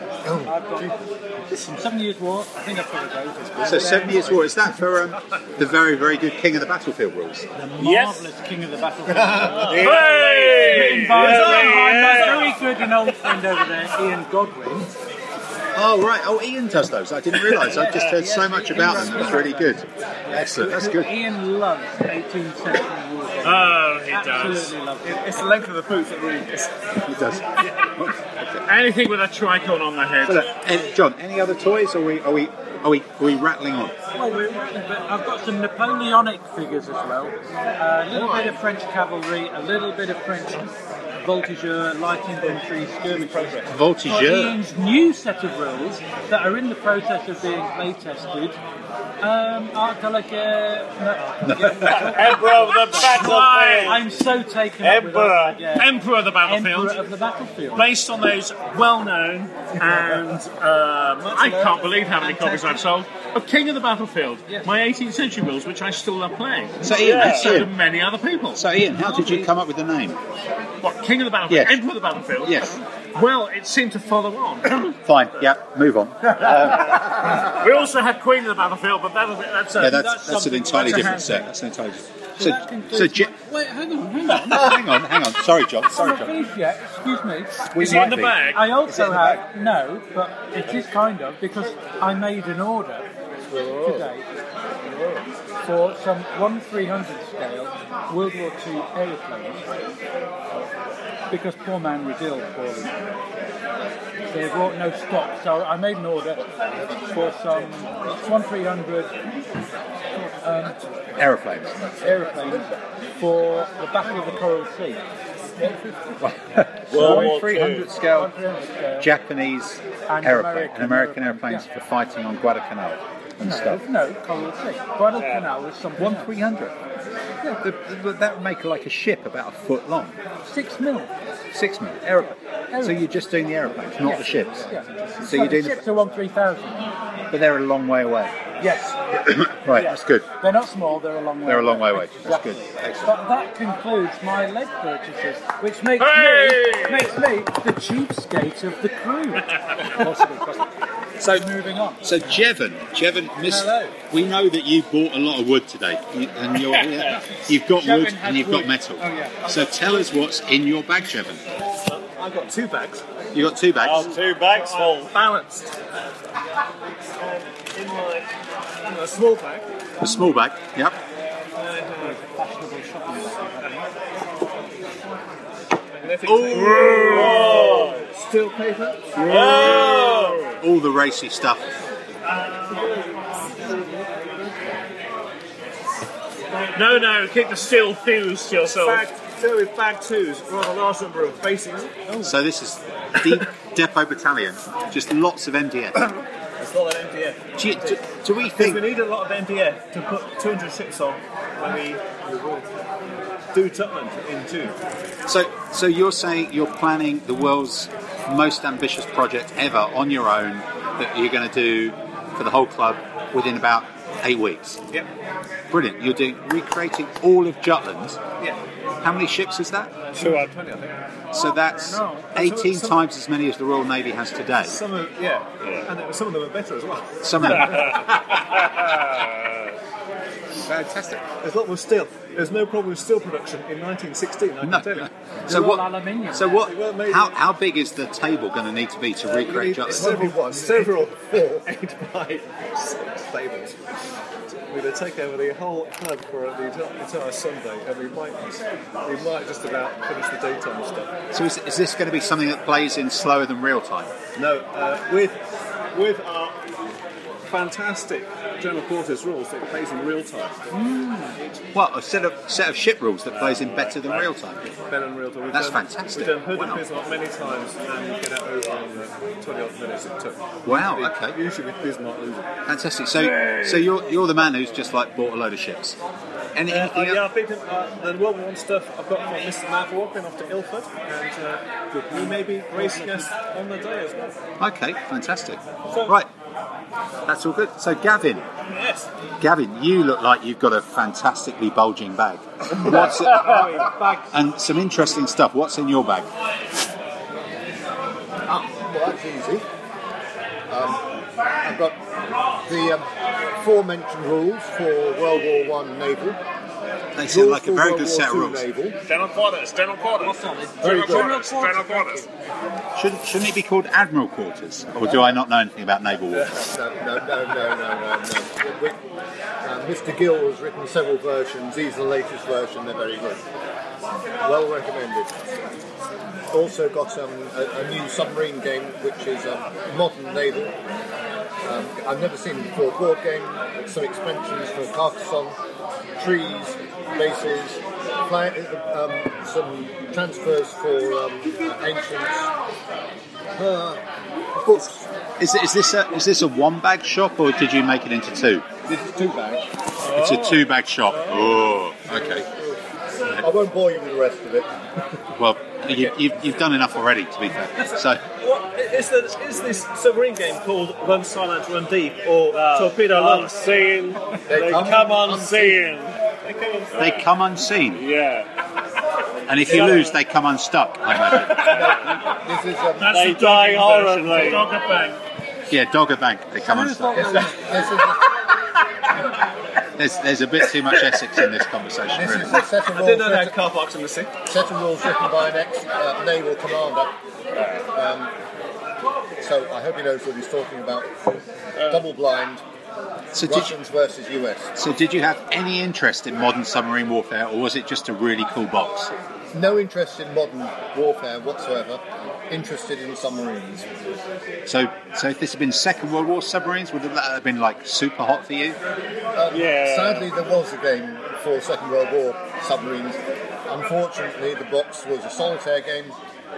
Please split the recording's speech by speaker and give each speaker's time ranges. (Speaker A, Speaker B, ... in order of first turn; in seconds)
Speaker A: 0.2-1.0, 3.6-4.5, 9.1-9.9, 38.2-38.5, 93.5-94.1, 94.9-95.2, 106.6-107.1, 111.8-112.7, 114.1-114.3, 115.6-115.9, 134.3-135.0, 239.9-241.7, 298.5-299.6, 300.7-301.1, 301.6-302.0, 302.6-303.1, 303.6-306.4, 307.2-309.0, 310.8-311.3, 316.6-319.0, 319.6-323.4, 324.4-325.3, 326.5-330.8, 331.6-335.6, 336.2-342.5, 343.6-344.0, 344.6-345.0, 348.9-349.7, 353.4-355.1, 364.5-365.9, 371.5-373.3, 377.1-378.4, 382.1-383.6, 384.5-387.1, 387.9-388.3, 389.4-392.6, 393.4-394.8, 399.5-403.9, 409.4-416.1
Speaker B: 0.4-0.9, 1.5-4.6, 7.5-14.9, 17.6-25.5, 34.1-48.6, 49.2-55.9, 56.4-57.9, 68.9-69.5, 79.8-81.5, 82.4-84.8, 85.9-87.7, 88.5-93.1, 93.8-94.2, 95.6-99.6, 101.3-102.9, 104.3-109.2, 110.2-110.8, 112.0-115.0, 116.9-117.4, 118.0-119.1, 120.1-121.7, 123.4-126.3, 130.4-131.1, 132.7-133.0, 134.0-136.9, 138.6-150.7, 151.2-152.1, 153.4-153.9, 157.5-159.4, 172.0-173.9, 221.8-222.3, 235.4-236.7, 260.7-261.4, 281.9-283.3, 310.2-312.3, 376.6-377.8
Speaker C: 3.6-7.5, 15.7-21.1, 27.0-28.6, 30.2-33.9, 43.7-44.6, 51.4-52.1, 66.8-67.7, 68.5-70.2, 71.5-71.8, 72.4-72.8, 74.9-77.5, 79.8-83.3, 84.3-86.4, 87.7-89.4, 111.2-111.8, 116.2-118.3, 119.0-123.8, 126.0-126.7, 127.4-130.2, 131.5-134.7, 135.2-135.8, 137.3-138.3, 139.2-140.3, 141.4-143.2, 151.2-151.5, 152.0-161.4, 163.3-164.1, 170.0-171.0, 176.2-177.2, 180.6-181.7, 192.2-196.1, 197.6-198.8, 205.3-214.8, 215.7-218.2, 219.0-220.0, 221.3-224.8, 227.2-228.4, 230.7-231.2, 234.6-240.1, 251.3-254.1, 261.7-264.6, 265.5-266.8, 270.6-271.4, 272.6-276.0, 276.5-277.2, 284.6-286.3, 287.2-288.5, 289.4-293.7, 294.3-296.3, 307.1-308.6, 312.9-316.6, 345.4-348.6, 350.1-352.5, 355.3-358.2, 367.0-368.0, 369.5-371.9, 375.7-377.4, 380.0-382.6, 393.3-393.7, 394.8-399.1, 404.6-408.8
Speaker D: 7.8-8.2, 9.7-11.4, 23.4-24.7, 28.6-30.5, 52.9-54.0, 55.7-57.0, 57.7-68.6, 70.8-74.9, 76.6-80.0, 87.8-88.7, 146.0-147.1, 186.7-189.1, 309.1-310.3, 310.9-312.2, 373.0-375.2
Speaker E: 9.4-12.6, 51.8-54.0, 54.8-55.6, 66.9-67.6, 116.9-117.9, 125.2-125.5, 163.8-165.2, 176.5-178.1, 179.2-180.5, 228.8-229.2, 362.5-367.2, 367.9-368.5, 369.6-370.1, 373.1-374.7, 409.5-410.3
Speaker F: 11.2-12.2, 25.0-26.9, 43.1-43.8, 61.2-62.6, 159.4-160.1, 161.8-163.0, 163.9-165.7, 167.2-168.3, 168.8-169.7, 171.5-172.2, 175.9-180.6, 182.5-184.6, 188.6-192.2, 196.0-202.7, 203.5-204.8, 220.1-221.0, 222.3-223.0, 224.6-228.3, 230.7-235.1, 236.5-237.4, 239.3-243.8, 244.5-251.2, 254.4-255.4, 255.9-256.6, 257.5-260.6, 264.9-272.5, 273.4-273.9, 276.7-284.4, 285.9-286.1, 288.7-289.1, 292.7-294.3, 310.2-311.4, 350.0-351.6, 358.3-363.5, 366.5-366.9, 382.5-384.3